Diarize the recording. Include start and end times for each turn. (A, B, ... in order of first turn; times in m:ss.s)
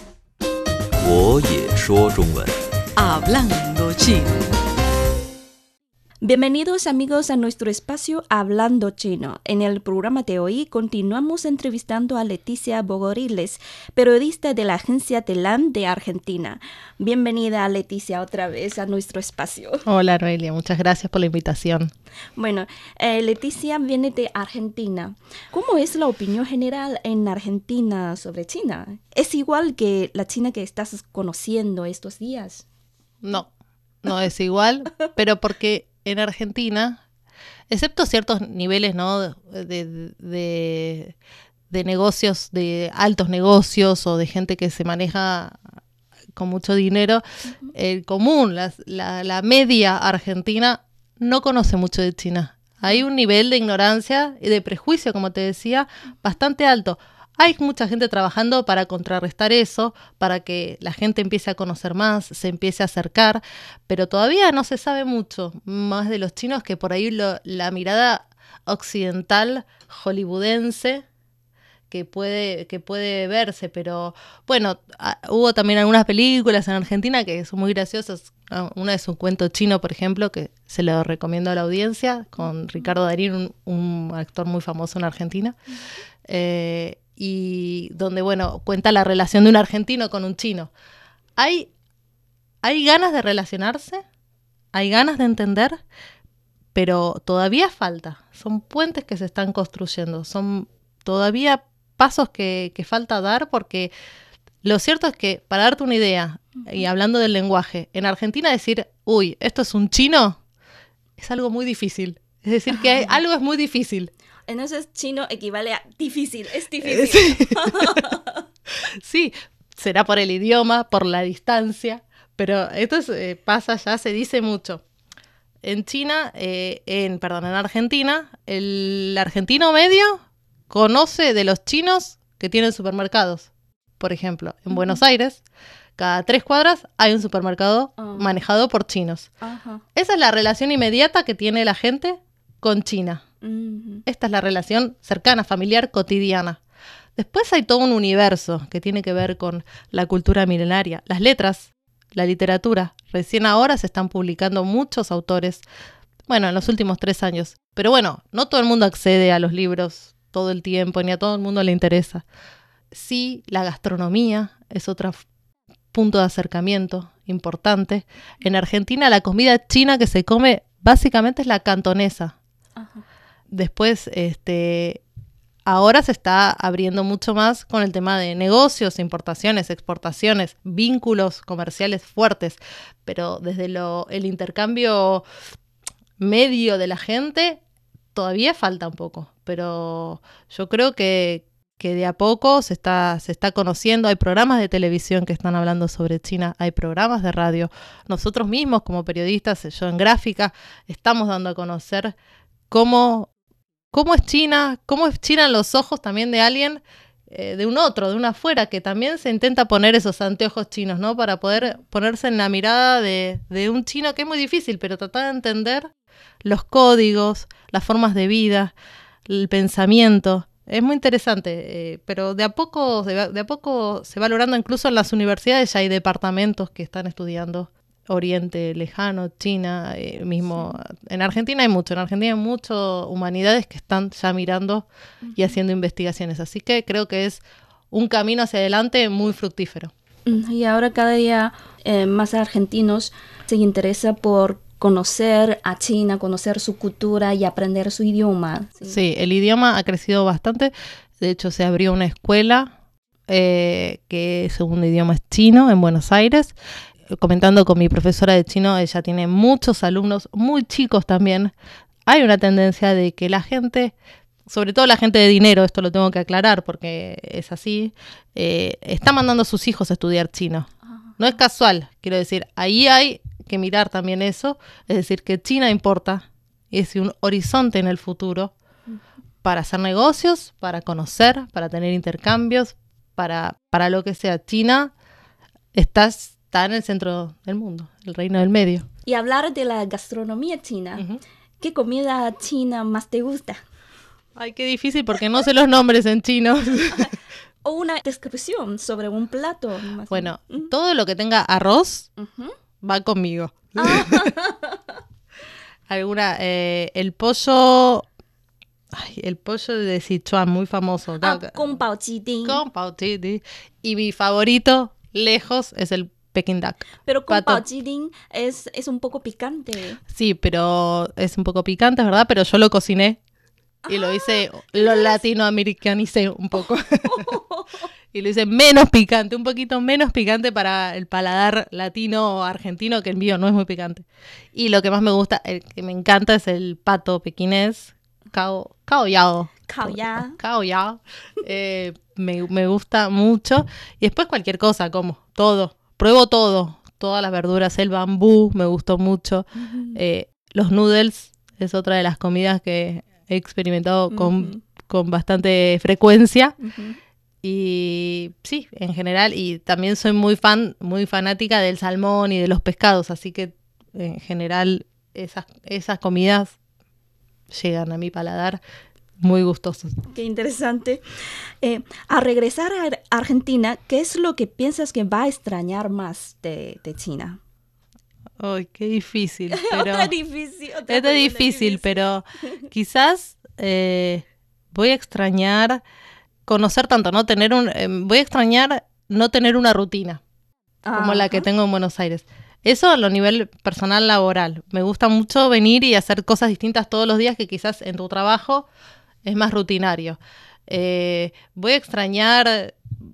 0:01.0-0:04.4 A
0:06.2-0:19.8 B
0:19.9-0:21.9 C
0:22.4-0:32.7 B
0:33.2-0:33.5 C
0:34.0-0:37.0 C
0:37.7-0:41.2 C
0:41.7-0:45.6 C
0:46.4-1:11.0 C
0:47.4-0:47.8 B
1:11.9-1:25.6 C
1:22.4-1:22.9 B
1:26.3-1:30.7 C
1:31.4-1:31.7 C
1:32.6-1:34.0 C
1:34.7-1:35.8 C
1:36.7-1:43.9 C
1:44.6-1:50.4 C
1:51.2-1:54.1 C
1:52.7-1:53.2 B
1:54.5-1:58.4 B
1:56.8-1:58.0 C
1:59.0-2:04.8 C
2:05.6-2:15.4 C
2:14.7-2:15.0 B
2:16.0-2:19.3 C
2:18.0-2:18.4 B
2:19.4-2:19.8 B
2:20.0-2:23.2 C
2:23.4-2:24.1 B
2:24.1-2:26.6 C
2:27.2-2:35.6 C
2:36.3-2:42.2 C
2:42.9-2:45.2 C
2:45.9-2:52.4 C
2:52.8-2:53.0 B
2:53.5-2:55.0 C
2:55.7-3:05.2 C
3:06.2-3:07.6 C
3:08.2-3:22.1 C
3:22.7-3:23.3 C
3:23.9-3:35.9 C
3:36.4-3:38.7 C
3:39.3-3:59.9 C
3:55.2-3:55.6 B
4:00.3-4:09.0 B
4:08.8-4:12.7 C
4:13.3-4:16.6 C
4:17.2-4:21.5 C
4:22.1-4:24.0 C
4:24.5-4:38.5 C
4:30.9-4:31.4 B
4:39.4-4:44.9 C
4:45.8-4:48.9 C
4:49.0-4:51.0 B
4:51.6-4:53.6 B
4:54.4-4:57.1 C
4:57.6-5:00.7 B
5:00.1-5:02.1 C
5:02.2-5:02.5 B
5:02.8-5:04.3 C
5:03.8-5:04.8 B
5:05.9-5:08.0 C
5:08.9-5:11.8 C
5:11.2-5:12.6 B
5:12.4-5:17.6 C
5:17.0-5:20.0 B
5:20.1-5:23.2 C
5:23.9-5:25.2 B
5:23.9-5:27.3 C
5:27.1-5:27.7 B
5:28.1-5:56.6 C
5:39.7-5:40.4 B
5:49.6-5:50.0 B
5:54.1-5:54.6 B
5:56.6-5:57.0 B
5:57.4-6:06.6 C
6:07.5-6:08.6 C
6:09.2-6:10.0 C
6:10.1-6:11.0 B
6:11.6-6:17.4 B
6:18.4-6:20.2 C
6:19.5-6:22.1 B
6:20.9-6:25.8 C
6:26.5-6:30.2 C
6:30.8-6:31.5 B
6:30.9-6:38.7 C
6:39.2-6:42.8 C